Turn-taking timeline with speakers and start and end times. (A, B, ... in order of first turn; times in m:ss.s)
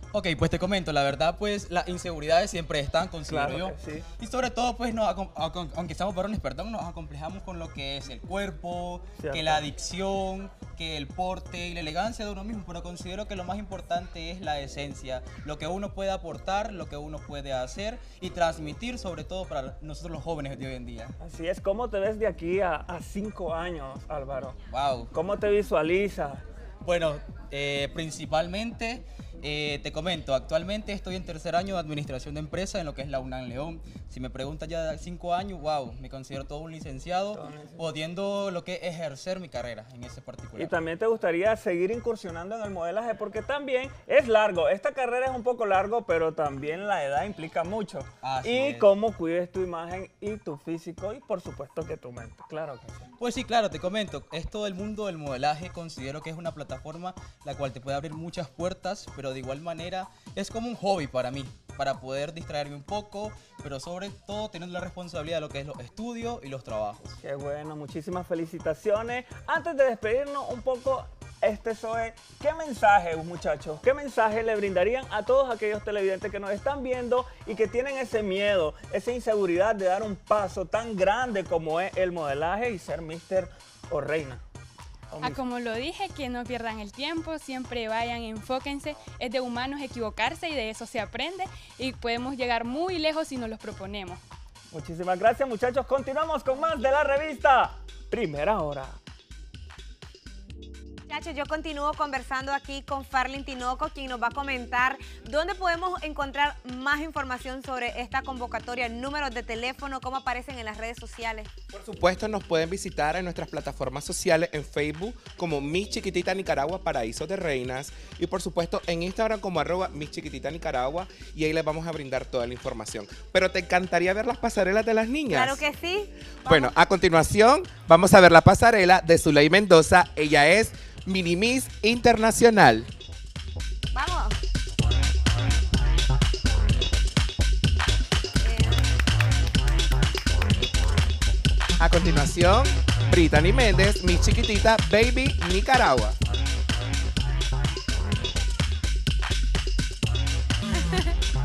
0:00.1-0:21.1 A
0:03.3-0:04.1 B
0:09.2-0:09.7 B
0:21.2-0:24.6 B
0:24.7-0:25.1 A
0:25.1-0:26.4 B
0:26.8-0:40.7 A
0:37.3-0:37.9 B
0:40.6-0:53.1 B
0:48.2-0:48.9 A
0:53.2-1:07.2 A
1:07.2-1:24.4 B
1:25.1-1:25.4 B
1:25.2-1:34.2 C
1:34.7-1:39.0 B
1:41.1-1:51.5 D
1:51.7-2:05.6 E
2:05.3-2:06.7 D
2:06.4-2:12.9 E
2:13.9-2:14.4 D
2:18.4-2:18.9 D
2:21.8-2:26.2 E